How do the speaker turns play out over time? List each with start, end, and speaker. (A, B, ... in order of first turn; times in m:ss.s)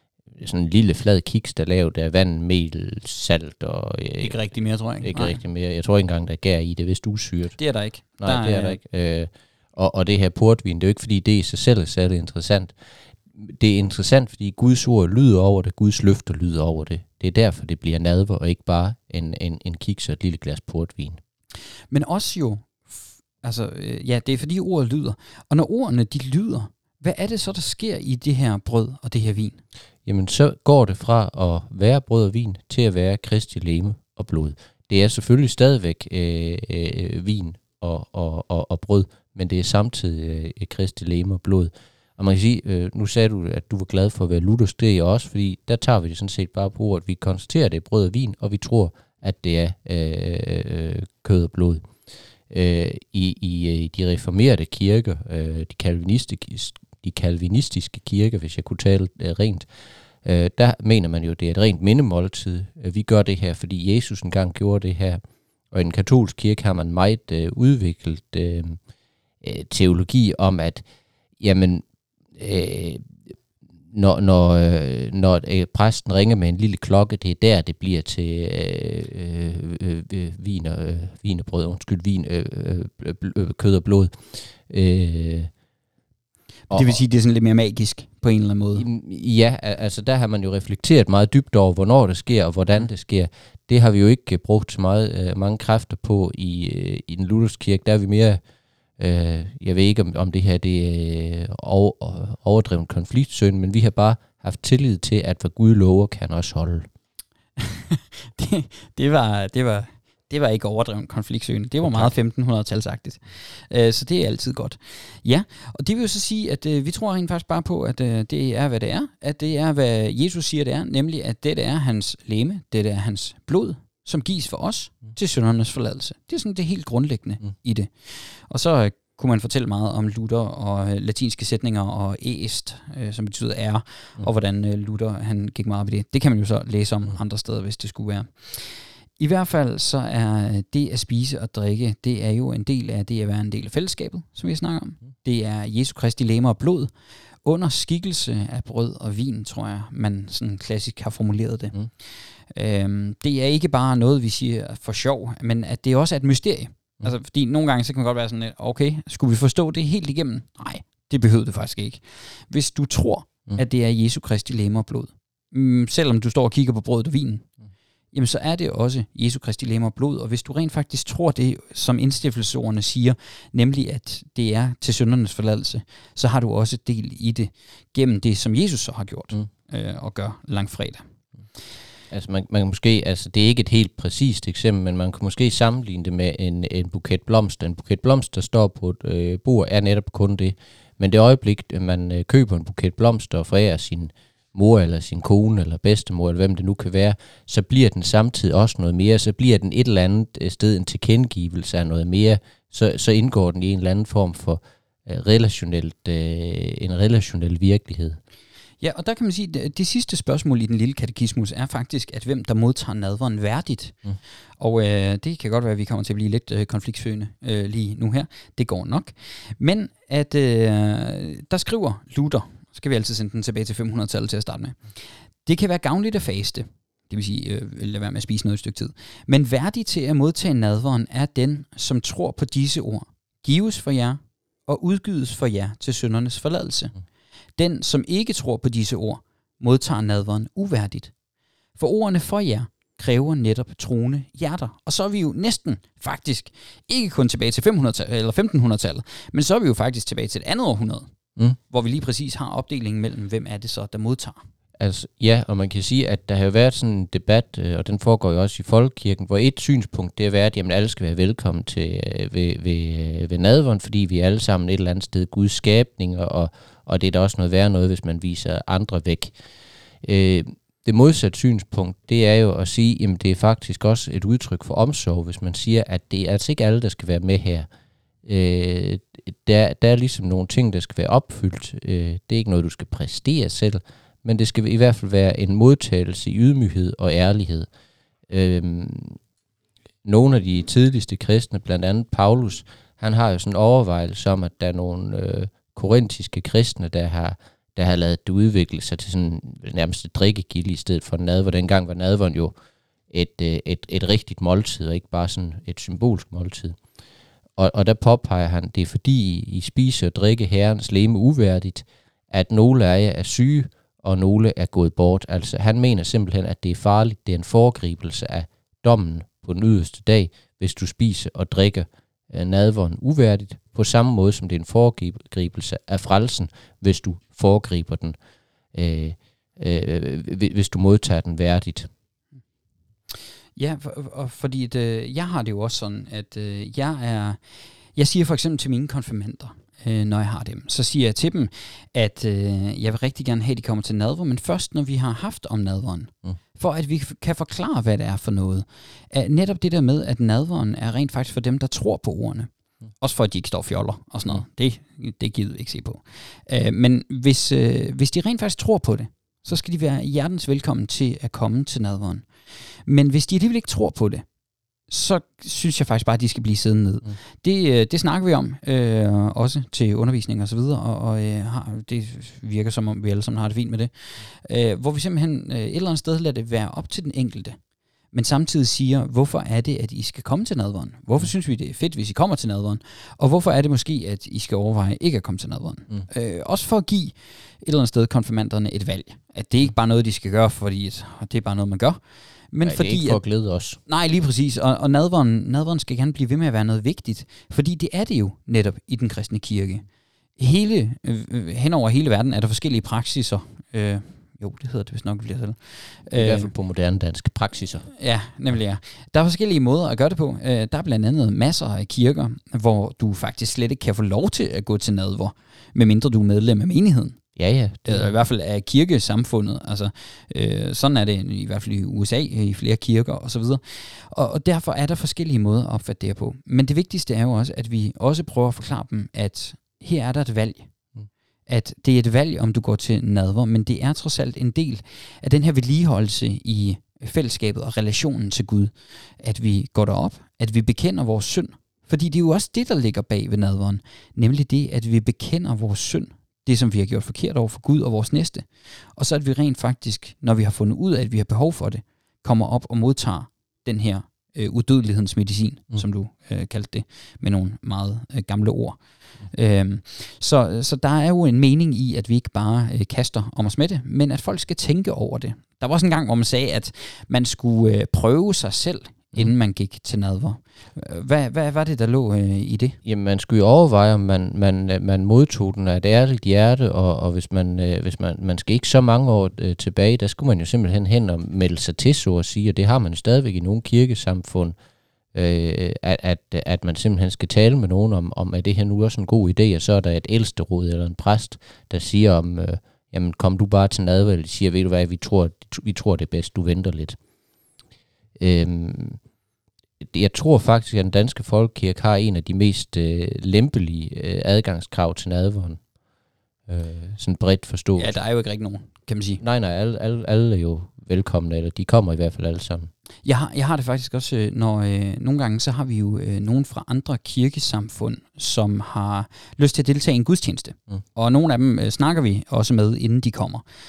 0:00.3-0:04.4 A
0:04.2-0:05.4 B
0:05.0-0:07.6 A
0:07.6-0:08.8 B
0:08.2-0:12.7 A
0:13.4-0:21.2 A
0:21.9-0:29.6 B
0:30.0-0:51.9 A
0:52.5-0:59.7 A
1:00.2-1:08.8 A
1:09.4-1:10.8 A
1:11.4-1:13.2 A
1:13.9-1:25.5 A
1:26.7-1:28.8 B
1:26.7-1:27.0 A
1:28.7-1:38.4 A
1:39.0-1:46.9 A
1:47.6-2:26.9 B
1:51.8-1:52.1 A
2:27.4-2:47.5 B
2:48.1-3:01.1 B
3:02.1-3:28.2 A
3:28.8-3:34.0 B
3:34.6-3:56.9 B
3:57.6-4:01.1 B
4:01.8-4:11.1 B
4:11.7-4:14.4 B
4:14.8-4:29.3 A
4:30.0-4:37.7 A
4:38.2-4:47.7 A
4:48.3-4:49.2 A
4:50.0-5:02.5 A
5:03.1-5:06.8 A
5:07.6-5:28.1 A
5:28.7-5:31.9 A
5:33.6-5:37.4 B
5:37.9-6:02.3 B
6:02.8-6:04.2 B
6:04.9-6:17.6 B
6:18.1-6:33.2 B
6:32.6-6:33.8 A
6:33.8-6:39.8 B
6:40.4-6:46.5 B
6:46.1-6:47.9 A
6:47.9-6:57.2 B
6:57.4-6:58.1 A
6:57.8-7:10.7 B
7:11.5-7:52.8 B
7:52.8-8:04.5 A
8:05.1-8:17.0 A
8:18.2-8:19.0 A
8:19.8-8:25.6 A
8:26.5-8:27.9 A
8:27.8-8:29.2 B
8:29.2-8:32.7 A
8:33.0-8:43.4 B